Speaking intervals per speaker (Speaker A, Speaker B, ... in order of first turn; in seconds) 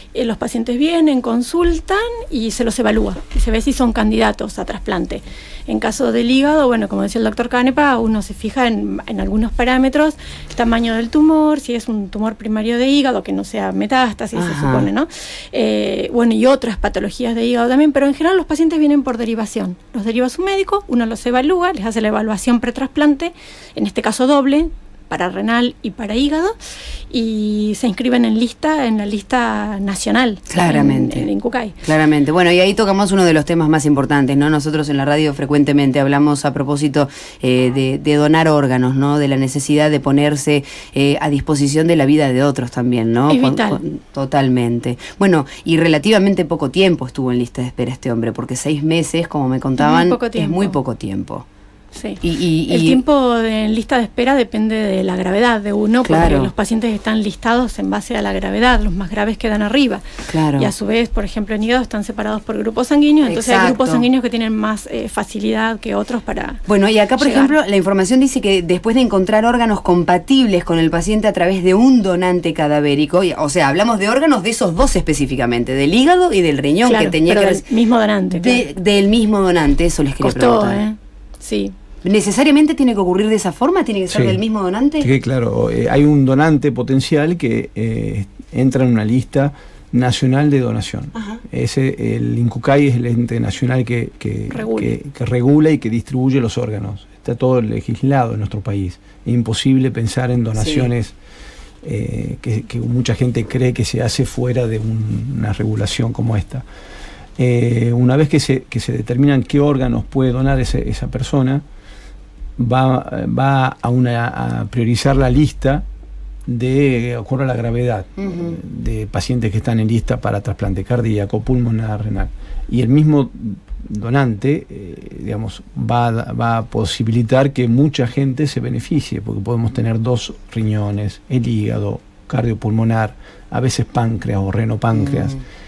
Speaker A: 0.1-26.6, 27.1-31.8, 43.3-43.8, 49.8-50.8, 51.9-60.0, 60.5-66.6, 67.2-67.5, 76.8-78.6, 80.2-81.7, 94.5-94.9
Speaker B: 14.3-14.9, 30.5-31.3, 31.8-51.4, 52.2-53.0, 56.0-56.5, 60.3-60.7, 63.2-64.0, 66.7-77.6, 78.3-80.8, 82.0-85.1, 91.1-91.4, 100.5-100.9, 118.2-118.6, 134.9-135.4
Speaker C: 84.1-84.4, 85.0-101.1, 101.8-106.6, 107.4-111.6, 112.6-115.8, 116.5-135.3